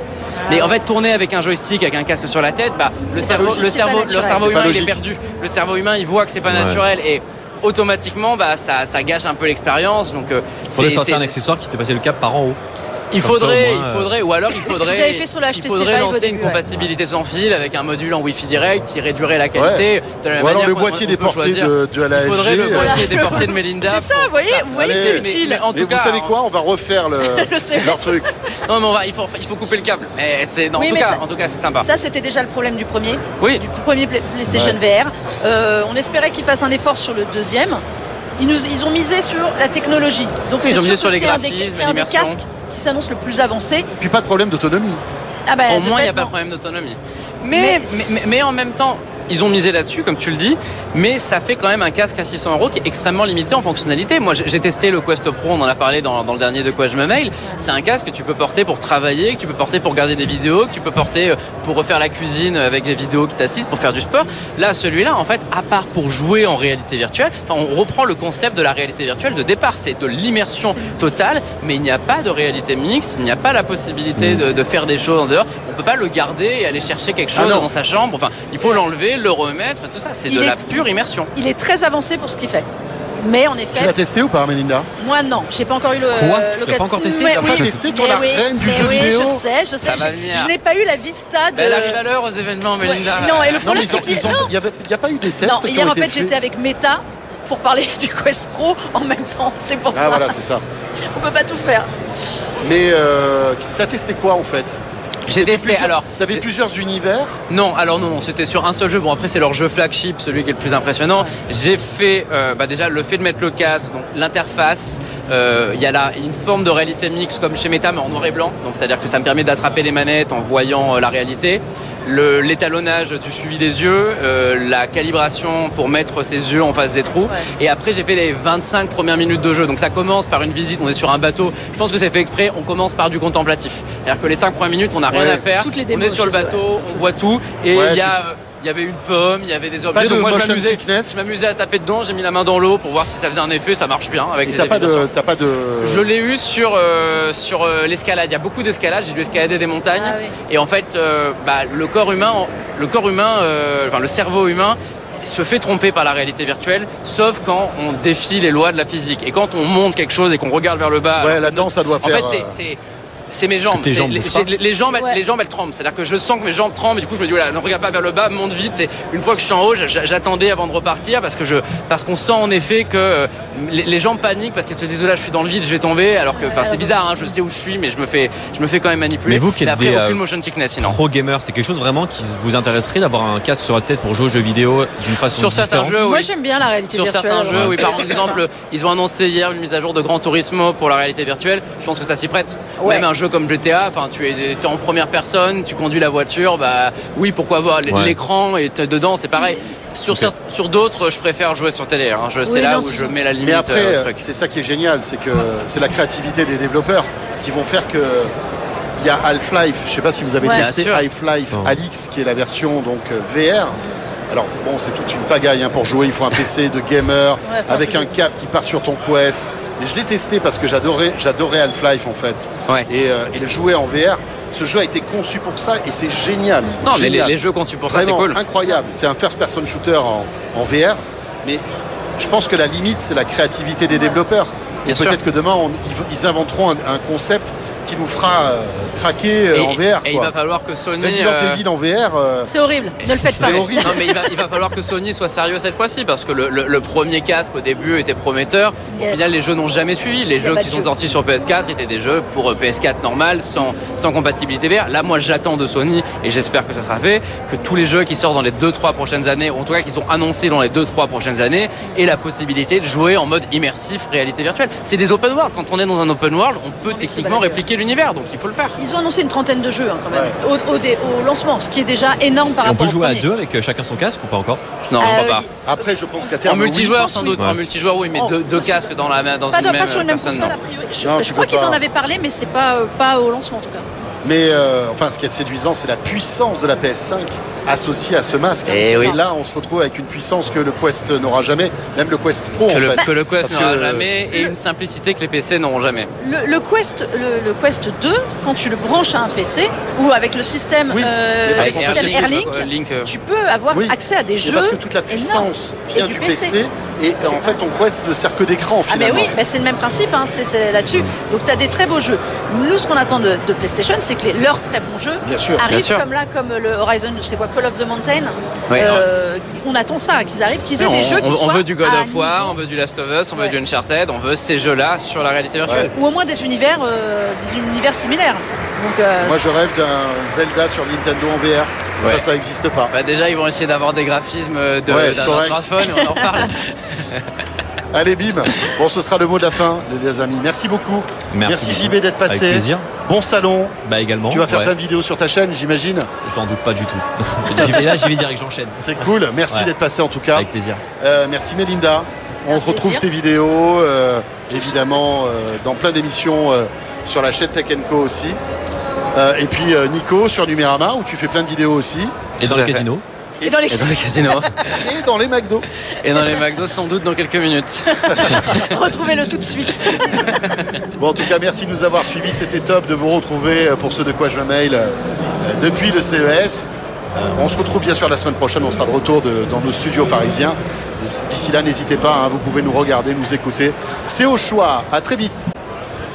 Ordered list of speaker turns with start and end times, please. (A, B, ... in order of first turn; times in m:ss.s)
0:00.4-0:00.8 A
0:00.5-0:11.4 B
0:03.1-0:04.6 A
0:04.3-0:05.0 C
0:06.4-0:06.8 D
0:10.7-0:12.6 D
0:13.1-0:26.3 B
0:13.2-0:14.1 D
0:14.6-0:16.6 A
0:19.5-0:23.0 C
0:22.7-0:25.6 A
0:24.7-0:28.3 C
0:27.2-0:28.2 A
0:28.6-0:31.9 B
0:30.8-0:37.8 A
0:34.5-0:34.8 C
0:38.4-0:43.9 A
0:40.6-0:42.4 B
0:44.0-0:45.0 C
0:45.4-0:46.3 A
0:45.7-1:21.3 B
0:47.5-0:48.3 A
1:14.2-1:14.4 D
1:17.4-1:17.7 C
1:20.3-1:22.6 A
1:23.2-1:23.9 A
1:23.7-1:24.9 C
1:25.0-1:32.0 A
1:26.1-1:27.6 D
1:27.2-1:29.4 C
1:29.8-1:30.5 B
1:31.5-1:34.3 B
1:32.8-1:34.5 A
1:33.6-1:36.3 C
1:35.4-1:40.4 A
1:39.9-1:40.6 C
1:41.0-1:41.9 A
1:42.6-1:47.4 C
1:45.2-1:46.4 B
1:47.5-2:25.1 B
2:15.1-2:15.5 C
2:15.5-2:16.8 A
2:17.7-2:18.2 C
2:19.9-2:21.2 C
2:24.4-2:26.0 C
2:25.8-2:42.8 B
2:30.0-2:30.3 A
2:41.2-2:42.5 C
2:43.3-3:01.0 B
2:43.7-2:44.5 D
2:56.3-2:56.9 A
2:59.3-3:00.2 D
3:00.8-3:06.0 D
3:05.3-3:06.3 B
3:06.0-3:08.4 A
3:06.9-3:24.2 B
3:07.5-3:07.9 D
3:12.8-3:13.0 A
3:17.9-3:18.2 D
3:22.4-3:23.1 A
3:23.4-3:28.3 C
3:29.0-3:33.8 C
3:30.4-3:30.7 A
3:30.5-3:31.0 B
3:31.5-3:31.8 D
3:34.3-3:47.4 C
3:37.4-3:38.1 A
3:46.8-3:48.4 B
3:47.9-3:51.6 C
3:52.2-4:00.3 C
3:54.8-3:55.2 B
3:59.5-4:01.6 B
4:01.0-4:02.5 C
4:02.4-4:04.2 A
4:03.2-4:28.8 B
4:03.3-4:04.0 C
4:08.9-4:09.2 A
4:10.4-4:10.9 A
4:26.9-4:27.6 A
4:28.8-4:33.3 A
4:30.1-4:30.3 C
4:32.6-4:34.6 D
4:34.8-4:35.4 B
4:35.0-4:37.4 A
4:35.6-4:37.0 C
4:36.4-4:40.5 B
4:38.1-4:38.9 A
4:39.5-4:43.8 A
4:41.0-4:41.8 C
4:44.2-4:54.0 C
4:48.7-4:49.1 B
4:48.7-4:49.2 A
4:52.7-4:56.1 B
4:56.2-5:06.6 A
5:00.9-5:02.4 C
5:01.5-5:03.1 B
5:03.7-5:09.4 C
5:07.2-5:07.6 A
5:08.9-5:22.6 A
5:15.2-5:15.6 C
5:15.7-5:16.0 B
5:18.7-5:19.0 B
5:20.8-5:25.9 B
5:25.9-5:29.6 A
5:29.2-5:32.9 C
5:32.0-5:32.2 B
5:32.9-5:37.3 B
5:34.9-5:35.9 C
5:35.8-5:36.3 A
5:37.9-5:46.1 C
5:41.3-5:42.9 D
5:43.8-5:44.7 D
5:46.2-5:49.7 D
5:47.5-5:48.1 A
5:48.8-5:50.5 C
5:50.3-5:50.8 D
5:51.0-5:58.4 C
5:52.4-5:53.0 A
5:59.1-6:02.3 C
6:02.4-6:03.0 D
6:02.4-6:02.8 B
6:03.4-6:03.7 C
6:03.4-6:04.0 A
6:03.7-6:04.9 B
6:04.8-6:05.7 C
6:06.0-6:08.8 B
6:08.0-6:10.4 A
6:09.9-6:10.6 B
6:11.0-6:25.5 C